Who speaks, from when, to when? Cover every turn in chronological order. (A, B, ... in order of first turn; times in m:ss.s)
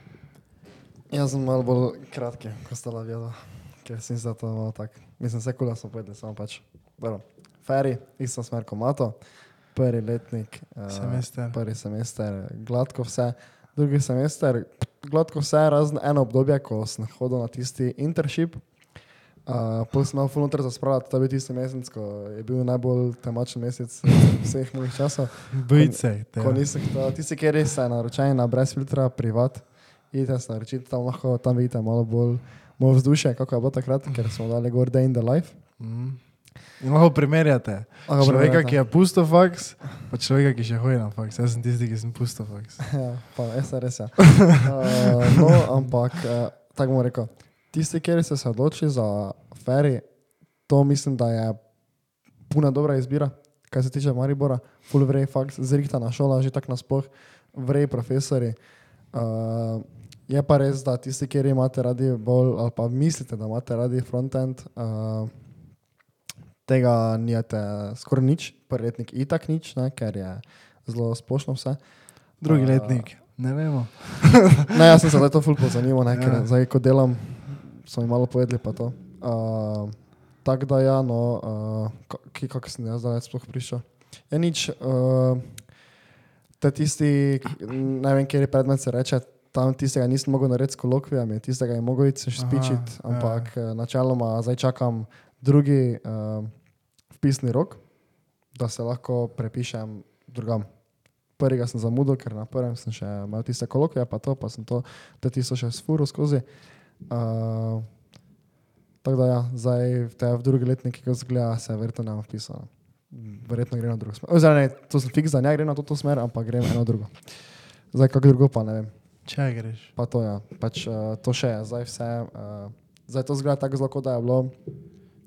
0:01.1-0:35.6 A
0:10.9-0:11.6 B
0:25.5-0:26.7 B
0:35.8-0:43.0 B
0:38.1-0:38.8 A
0:42.9-1:05.8 A
1:06.6-1:13.1 A
1:12.4-1:14.8 B
1:14.7-1:26.0 A
1:16.1-1:16.5 B
1:26.6-1:48.0 A
1:32.4-1:33.5 B
1:49.0-1:59.4 A
1:59.2-1:59.9 B
2:00.0-2:04.6 A